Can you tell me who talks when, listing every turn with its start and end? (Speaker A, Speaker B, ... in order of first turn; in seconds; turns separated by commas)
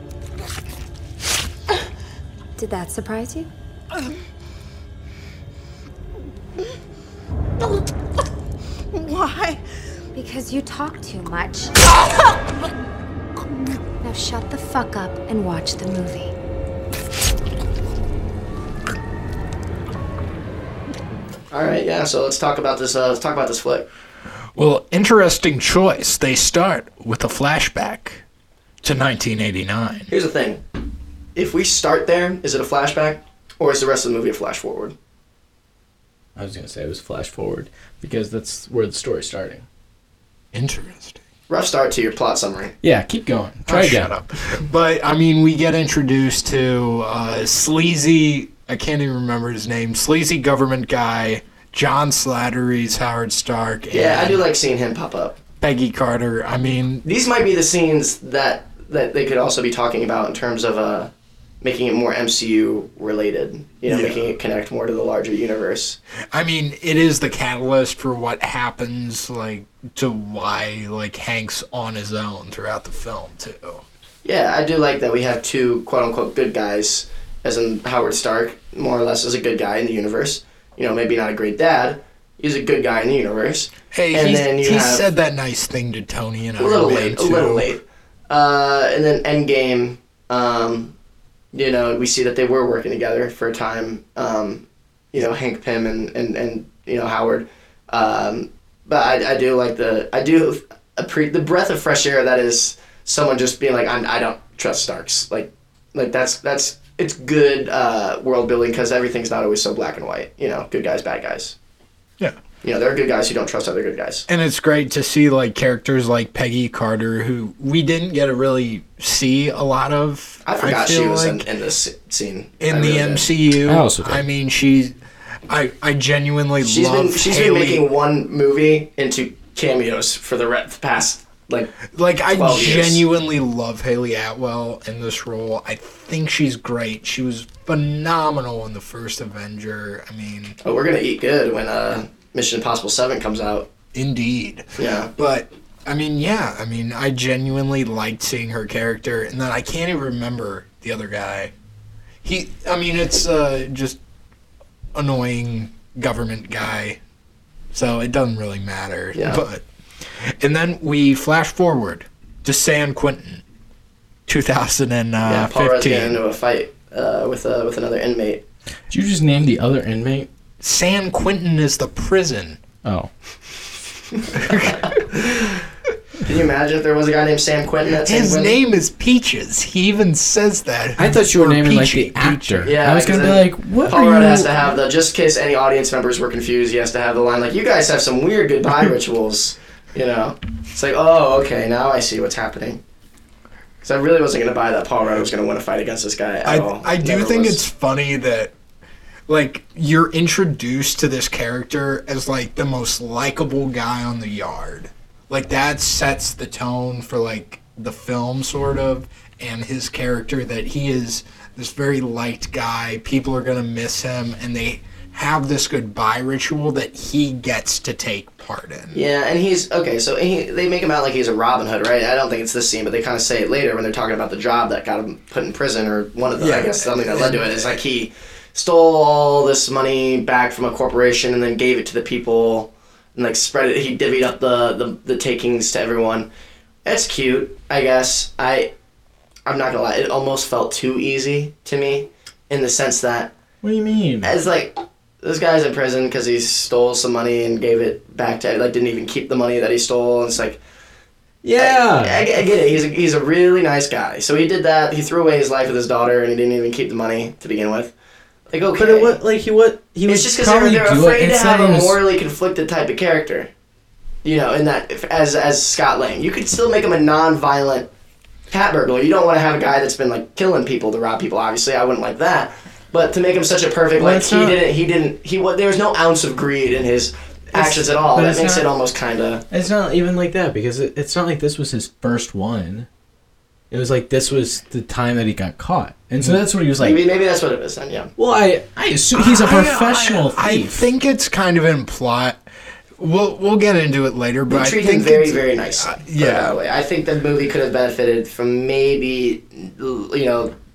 Speaker A: 2.6-3.5, Speaker A: 9.0-9.6, Speaker A: 10.1-11.7, Speaker A: 14.0-16.3, Speaker B: 21.5-23.9, Speaker C: 24.5-28.2, Speaker C: 28.8-30.1, Speaker B: 30.1-30.6, Speaker B: 31.3-34.9, Speaker D: 36.4-39.6, Speaker C: 40.5-41.2, Speaker B: 41.5-42.7, Speaker D: 42.8-44.1, Speaker C: 43.7-54.4, Speaker B: 53.9-55.4, Speaker C: 55.6-57.0, Speaker B: 57.0-66.0, Speaker C: 63.9-64.2, Speaker C: 66.3-73.8, Speaker B: 74.2-85.0, Speaker C: 83.9-87.7, Speaker B: 86.6-90.9, Speaker B: 91.5-111.5, Speaker B: 112.6-114.3, Speaker C: 114.3-121.5, Speaker B: 120.4-123.3, Speaker C: 122.6-125.0, Speaker D: 123.6-124.2, Speaker C: 125.5-127.9, Speaker B: 126.6-131.7, Speaker C: 131.9-140.6, Speaker B: 132.3-133.0, Speaker B: 140.6-143.7, Speaker C: 143.9-151.5, Speaker B: 144.8-145.1, Speaker C: 152.2-154.0, Speaker C: 154.9-157.0, Speaker C: 157.7-159.6, Speaker B: 159.1-159.4, Speaker C: 160.2-163.4, Speaker C: 164.3-166.2, Speaker B: 165.2-168.4, Speaker D: 168.9-170.3, Speaker C: 170.6-172.6, Speaker D: 172.8-173.1, Speaker B: 174.1-175.6, Speaker C: 174.3-175.2, Speaker B: 176.2-178.6, Speaker C: 178.0-182.8, Speaker D: 181.0-184.7, Speaker B: 182.6-192.8, Speaker B: 193.8-197.6, Speaker C: 196.4-198.5, Speaker C: 199.3-219.0, Speaker B: 218.9-236.3, Speaker C: 226.4-227.8, Speaker B: 236.8-238.7, Speaker B: 239.4-243.3, Speaker D: 243.6-244.3, Speaker B: 244.2-250.6, Speaker D: 251.4-252.3, Speaker B: 251.6-257.9, Speaker B: 258.5-259.2, Speaker D: 258.8-262.0, Speaker B: 260.1-263.5, Speaker B: 264.2-267.9, Speaker B: 268.5-279.4, Speaker D: 273.9-274.6, Speaker D: 277.5-278.7, Speaker D: 279.5-282.9, Speaker D: 283.7-287.0, Speaker B: 286.8-288.1, Speaker D: 288.2-290.8, Speaker C: 289.1-292.4, Speaker C: 293.0-296.6, Speaker B: 294.5-300.5